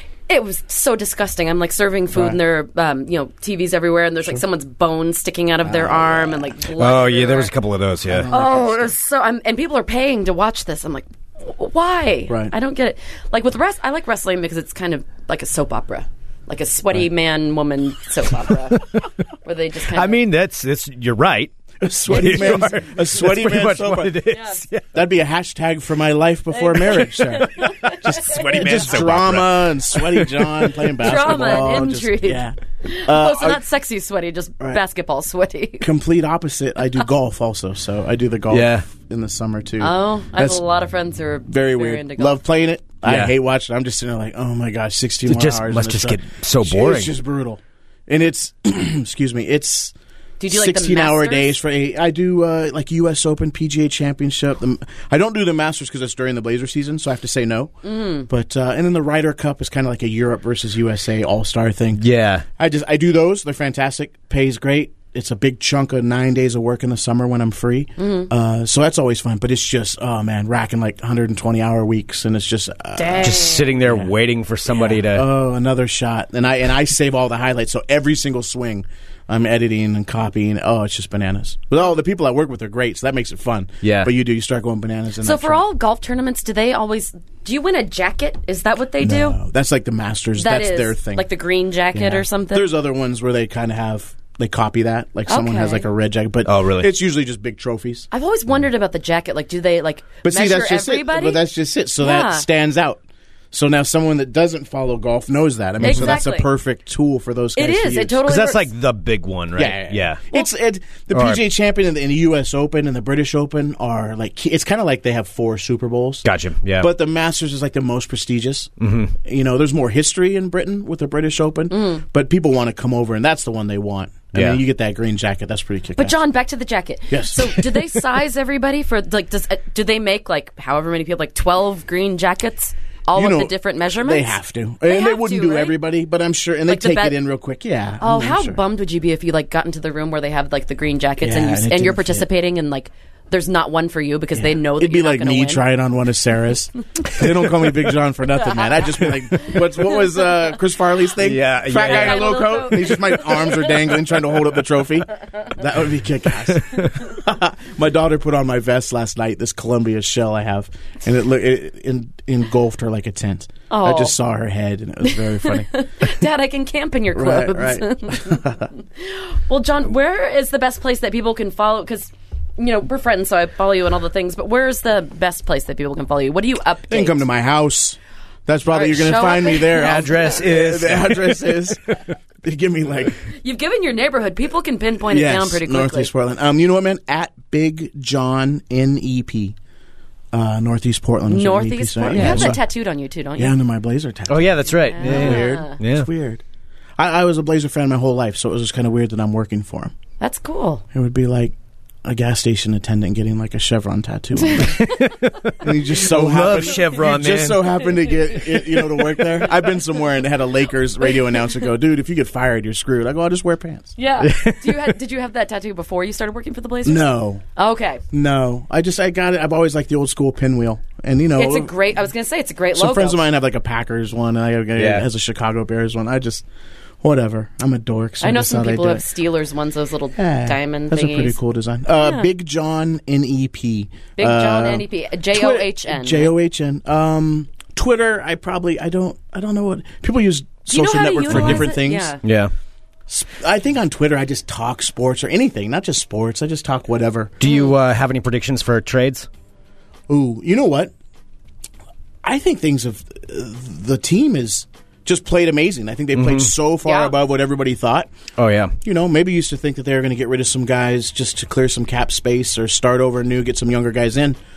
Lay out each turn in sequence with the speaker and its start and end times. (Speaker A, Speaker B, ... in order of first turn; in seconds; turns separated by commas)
Speaker A: 0.3-7.5, Speaker B: 2.1-2.4, Speaker B: 5.6-6.5, Speaker C: 6.8-8.3, Speaker B: 8.1-8.9, Speaker A: 8.3-20.2, Speaker B: 12.3-12.5, Speaker C: 18.7-19.0, Speaker C: 19.9-21.6, Speaker B: 21.8-24.2, Speaker C: 22.1-25.0, Speaker A: 24.3-24.6, Speaker B: 24.9-33.6, Speaker A: 26.5-28.8, Speaker C: 27.4-30.9, Speaker A: 31.0-35.9, Speaker B: 35.8-40.6, Speaker C: 38.5-38.9, Speaker A: 39.8-42.4, Speaker B: 41.5-49.9, Speaker C: 43.0-43.4, Speaker C: 45.3-47.1, Speaker A: 50.4-51.6, Speaker B: 50.5-57.7, Speaker A: 57.8-58.3, Speaker B: 58.3-62.0, Speaker C: 62.0-62.5, Speaker B: 62.6-74.1, Speaker A: 68.0-68.3, Speaker A: 73.0-73.7, Speaker C: 73.2-75.3, Speaker B: 74.7-85.6, Speaker C: 83.8-84.1, Speaker A: 85.2-89.4, Speaker B: 89.0-91.3, Speaker A: 90.4-92.7, Speaker B: 91.9-98.1, Speaker A: 95.3-95.9, Speaker C: 96.5-97.0, Speaker A: 98.1-101.4, Speaker B: 100.2-103.0, Speaker A: 102.0-102.5, Speaker B: 103.5-108.3, Speaker A: 105.8-106.5, Speaker C: 105.8-106.2, Speaker A: 107.5-108.7, Speaker C: 108.2-110.3, Speaker B: 109.6-116.2, Speaker C: 111.1-111.5, Speaker C: 116.2-116.9, Speaker B: 116.8-118.7, Speaker C: 118.8-119.1, Speaker B: 119.2-126.2, Speaker A: 121.7-122.0, Speaker C: 124.3-124.6, Speaker A: 126.0-135.8, Speaker B: 127.1-127.9, Speaker B: 133.1-138.6, Speaker A: 136.7-137.2, Speaker A: 138.0-145.7, Speaker B: 141.2-142.3, Speaker B: 144.3-165.7, Speaker C: 151.2-152.4, Speaker A: 151.7-153.8, Speaker C: 156.6-156.9, Speaker A: 163.7-164.2, Speaker A: 165.1-168.4, Speaker B: 167.1-168.7, Speaker A: 169.0-177.2, Speaker B: 176.9-181.8, Speaker A: 178.7-180.2, Speaker C: 179.8-181.9, Speaker B: 182.4-183.2, Speaker A: 183.3-186.1, Speaker B: 185.1-189.6, Speaker B: 190.3-192.7, Speaker A: 191.3-193.6, Speaker C: 192.1-192.6, Speaker B: 193.4-196.4, Speaker C: 194.3-196.1, Speaker A: 194.9-195.8, Speaker B: 197.0-199.9, Speaker A: 200.2-200.8, Speaker B: 200.9-204.8, Speaker A: 204.4-205.1, Speaker C: 204.6-207.7, Speaker B: 205.6-214.2, Speaker A: 208.3-209.1, Speaker A: 211.1-211.4, Speaker A: 214.0-218.0, Speaker C: 214.2-214.9, Speaker B: 216.8-217.4, Speaker B: 218.1-221.8, Speaker A: 221.4-223.2, Speaker B: 222.8-226.4, Speaker C: 224.8-225.1, Speaker B: 227.0-229.0, Speaker A: 228.2-231.4, Speaker B: 230.2-242.2, Speaker A: 232.0-232.3, Speaker A: 234.2-236.3, Speaker A: 240.7-242.2, Speaker C: 241.3-242.5, Speaker B: 243.1-247.4, Speaker C: 247.4-249.3, Speaker B: 250.1-250.9, Speaker B: 252.2-258.2, Speaker C: 256.1-256.5, Speaker A: 256.9-257.1, Speaker C: 258.4-258.8, Speaker B: 258.8-264.4